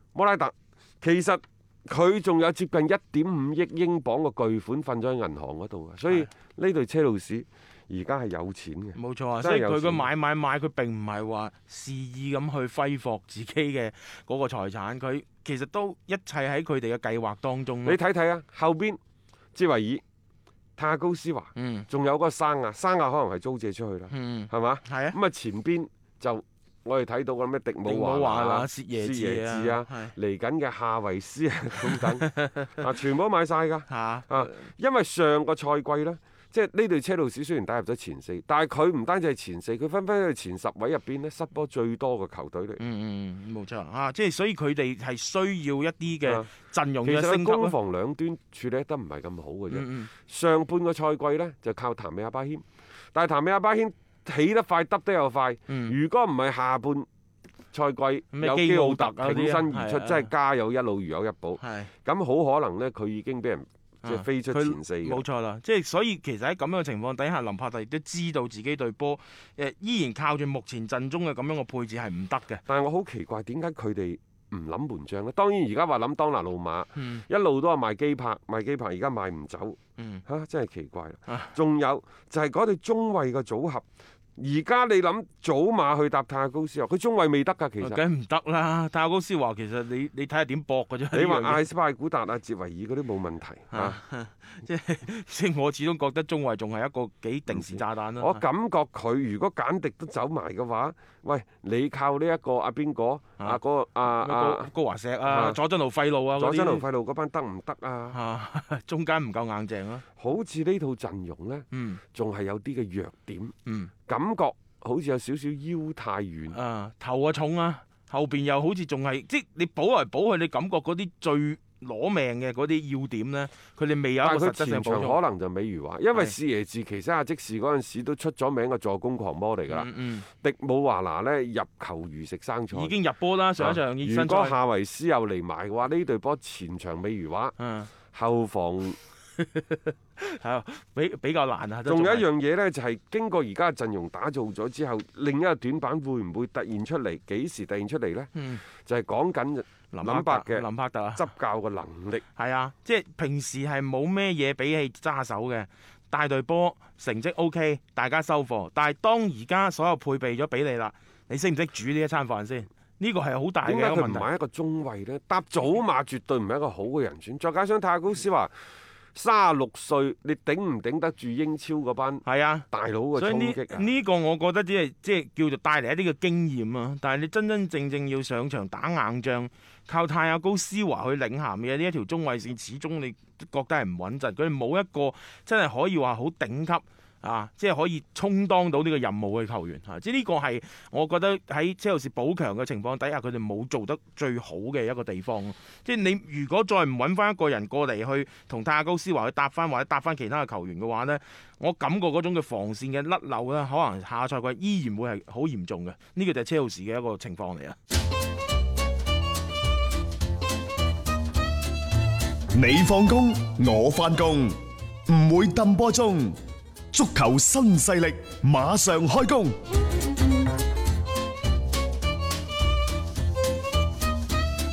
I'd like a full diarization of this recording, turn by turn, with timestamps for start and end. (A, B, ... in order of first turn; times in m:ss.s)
0:00.2-0:10.1 A
0:09.0-0:18.0 B
0:17.8-0:19.0 A
0:19.5-0:20.0 A
0:20.8-0:42.8 A
0:21.6-0:21.9 B
0:24.1-0:25.2 B
0:27.8-0:30.1 B
0:31.9-0:32.8 B
0:33.9-0:34.6 B
0:42.8-0:47.8 B
0:46.2-0:46.5 A
0:47.0-0:57.1 A
0:49.7-0:50.1 B
0:55.7-0:56.0 B
0:57.7-1:05.2 A
0:58.3-1:00.3 B
1:01.6-1:01.9 B
1:04.0-1:12.6 B
1:12.7-1:23.8 A
1:17.0-1:17.2 B
1:20.0-1:20.2 B
1:21.3-1:21.5 B
1:24.4-1:28.0 A
1:27.8-1:31.6 B
1:31.1-1:34.0 A
1:33.7-1:38.4 B
1:37.5-1:44.7 A
1:43.4-1:46.9 B
1:45.2-1:45.6 A
1:46.4-1:48.2 A
1:48.1-1:50.0 B
1:50.2-1:53.5 A
1:51.7-1:52.0 B
1:53.7-1:53.9 B
1:54.1-1:56.6 A
1:56.5-2:05.2 B
2:04.2-2:12.9 A
2:09.7-2:10.3 B
2:12.7-2:14.6 B
2:13.6-2:17.6 A
2:17.6-2:17.9 B
2:18.1-2:19.0 A
2:19.4-2:22.3 B
2:21.8-2:32.2 A
2:28.4-2:28.6 B
2:29.9-2:31.3 B
2:32.4-2:44.3 B
2:43.6-2:48.5 A
2:49.1-2:53.9 A
2:52.2-3:27.8 B
3:32.6-3:34.6 C
3:35.1-3:36.3 C
3:36.9-3:39.6 C